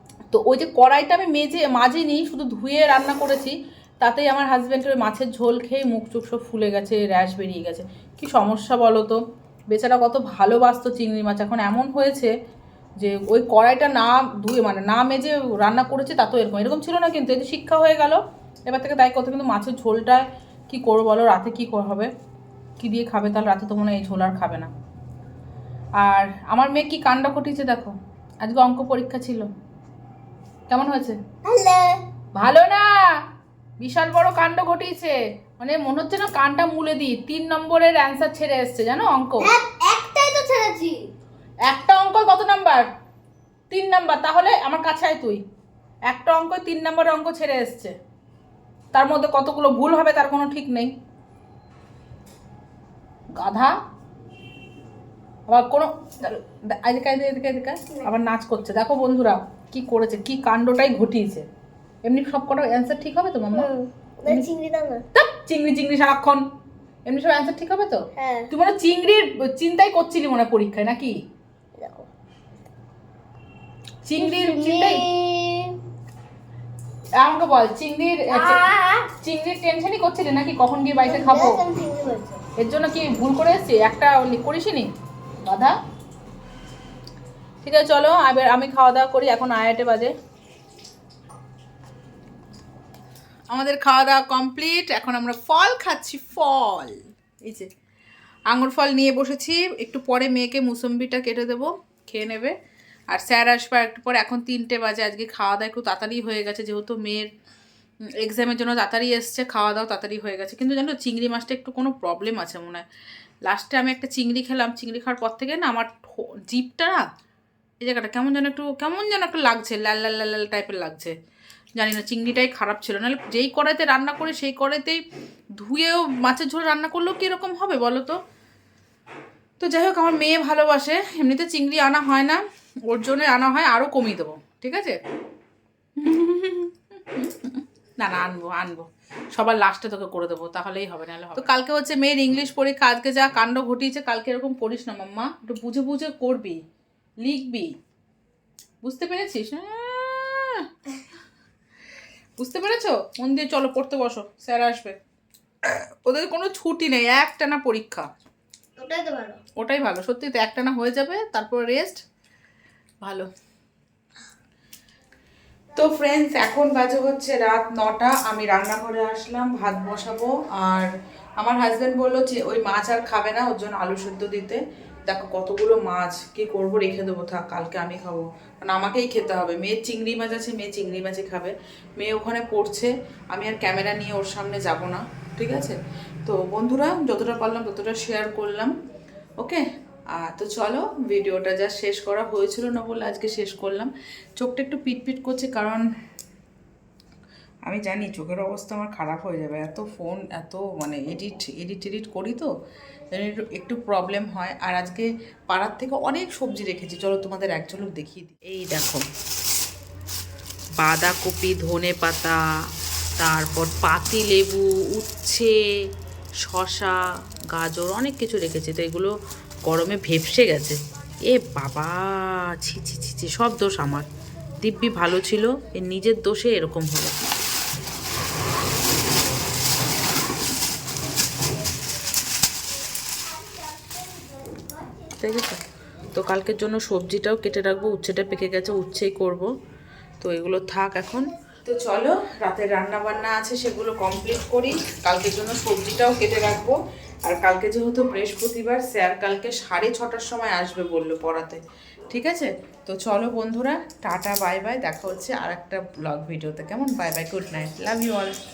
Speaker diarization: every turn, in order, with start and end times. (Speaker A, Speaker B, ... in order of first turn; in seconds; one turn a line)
Speaker A: 0.3-12.3
Speaker A: 13.0-22.1
Speaker A: 22.8-24.7
Speaker A: 26.0-29.5
Speaker A: 30.7-31.2
Speaker B: 31.4-32.0
Speaker A: 32.4-32.9
Speaker A: 33.8-39.5
Speaker B: 39.4-41.0
Speaker A: 41.7-42.9
Speaker A: 43.7-45.4
Speaker A: 46.1-47.9
Speaker A: 48.9-50.9
Speaker A: 53.4-53.8
Speaker A: 55.5-61.5
Speaker A: 62.0-63.7
Speaker B: 63.5-65.0
Speaker A: 65.1-66.5
Speaker A: 67.0-71.2
Speaker B: 68.2-68.5
Speaker B: 71.8-72.1
Speaker A: 74.1-75.0
Speaker B: 74.2-75.8
Speaker A: 77.2-78.6
Speaker B: 78.3-79.1
Speaker A: 79.2-81.6
Speaker B: 81.0-82.4
Speaker A: 82.6-84.9
Speaker A: 85.4-85.8
Speaker A: 87.6-90.1
Speaker A: 93.5-97.7
Speaker A: 98.5-102.6
Speaker A: 103.1-107.3
Speaker A: 108.2-112.9
Speaker A: 113.5-117.0
Speaker A: 117.8-121.2
Speaker A: 121.8-125.0
Speaker A: 125.6-128.2
Speaker A: 129.6-135.0
Speaker A: 136.0-146.6
Speaker A: 147.2-147.8
Speaker A: 148.8-150.7
Speaker A: 152.4-155.0
Speaker A: 155.6-158.1
Speaker B: 158.8-159.4
Speaker A: 159.6-162.0
Speaker A: 163.0-163.3
Speaker A: 165.8-188.7
Speaker A: 189.4-195.8
Speaker A: 197.7-202.5
Speaker A: 203.1-209.1
Speaker A: 210.8-212.4
Speaker A: 213.2-215.6
Speaker A: 216.4-219.1
Speaker A: 219.7-224.1
Speaker A: 224.6-227.3
Speaker B: 233.3-235.1
Speaker A: 235.2-239.5
Speaker A: 240.2-258.4